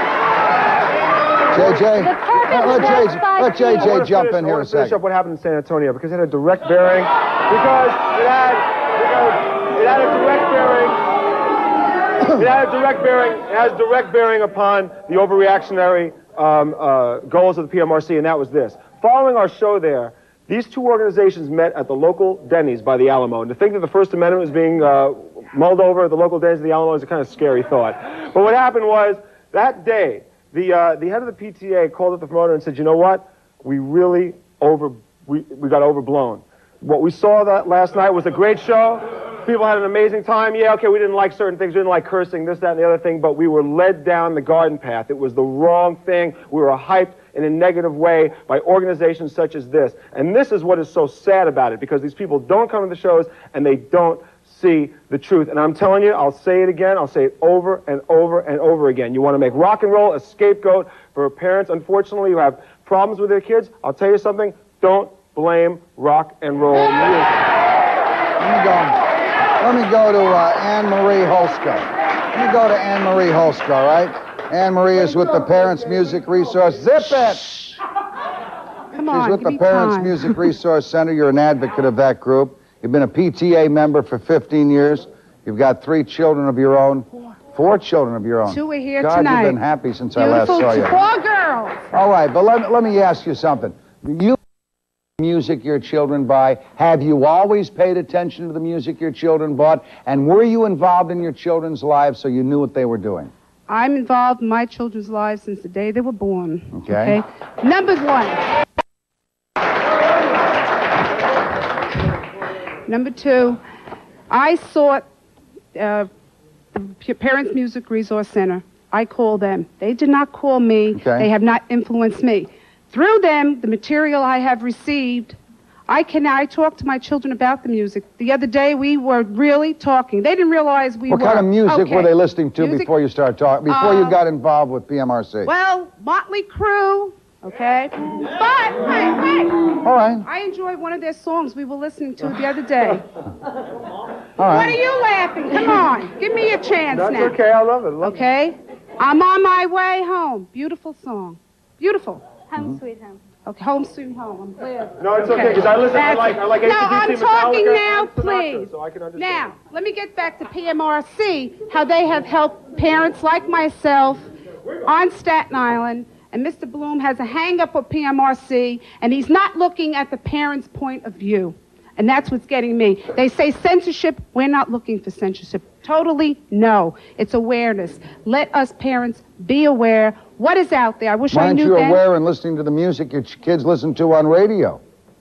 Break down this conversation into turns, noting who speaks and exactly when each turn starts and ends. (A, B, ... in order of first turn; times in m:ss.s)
0:01.5-0:05.0 A
0:01.7-0:03.9 B
0:03.7-0:11.0 C
0:12.3-1:07.5 C
1:08.4-1:09.0 A
1:09.6-1:17.8 A
1:18.9-1:20.4 D
1:19.1-1:31.0 A
1:28.5-1:29.6 D
1:30.1-1:31.8 D
1:31.9-1:34.4 A
1:35.2-1:43.3 A
1:43.7-1:48.4 D
1:46.7-1:47.2 A
1:52.9-1:53.6 D
1:54.3-1:55.0 D
1:55.7-1:56.1 D
1:56.7-2:05.4 D
2:00.9-2:01.3 A
2:05.9-2:12.9 D
2:11.1-2:15.5 A
2:13.6-2:14.2 D
2:15.4-2:19.7 D
2:19.8-2:20.2 A
2:20.2-2:23.0 D
2:24.4-2:24.8 A
2:24.4-2:27.4 D
2:26.9-2:28.2 C
2:28.0-2:32.2 D
2:32.5-2:33.2 B
2:33.4-2:44.2 D
2:35.0-2:39.5 C
2:44.8-3:02.0 D
3:01.3-3:04.8 A